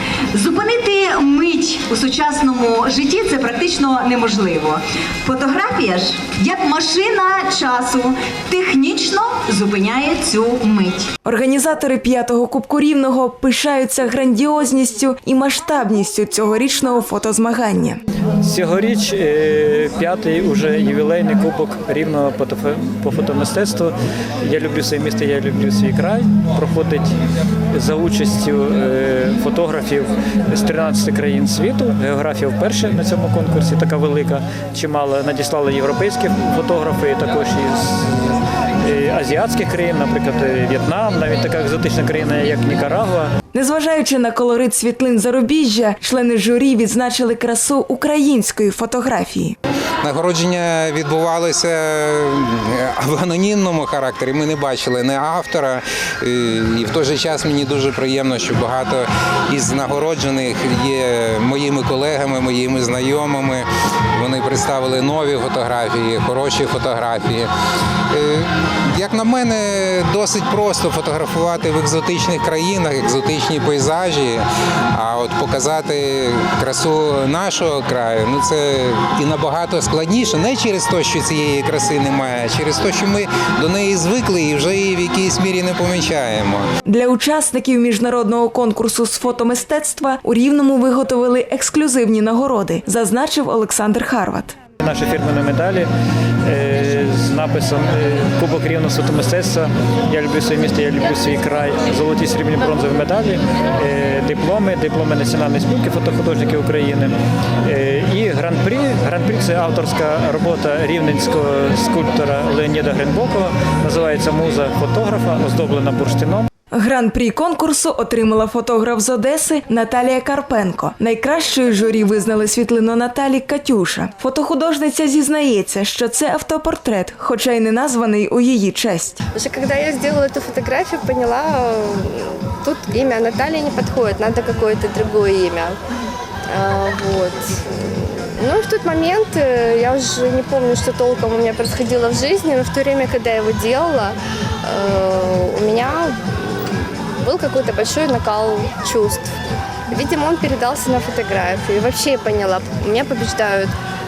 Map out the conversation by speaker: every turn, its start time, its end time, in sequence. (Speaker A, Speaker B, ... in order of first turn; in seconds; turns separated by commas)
Speaker A: 0.3-11.1, Speaker B: 11.2-18.0, Speaker C: 18.4-27.1, Speaker C: 27.7-43.3, Speaker B: 43.5-49.5, Speaker D: 50.0-67.5, Speaker D: 68.1-86.6, Speaker B: 86.9-94.6, Speaker C: 94.8-95.9, Speaker C: 96.4-116.5, Speaker B: 116.7-129.2, Speaker E: 129.3-135.8, Speaker E: 136.5-149.3, Speaker E: 149.9-153.7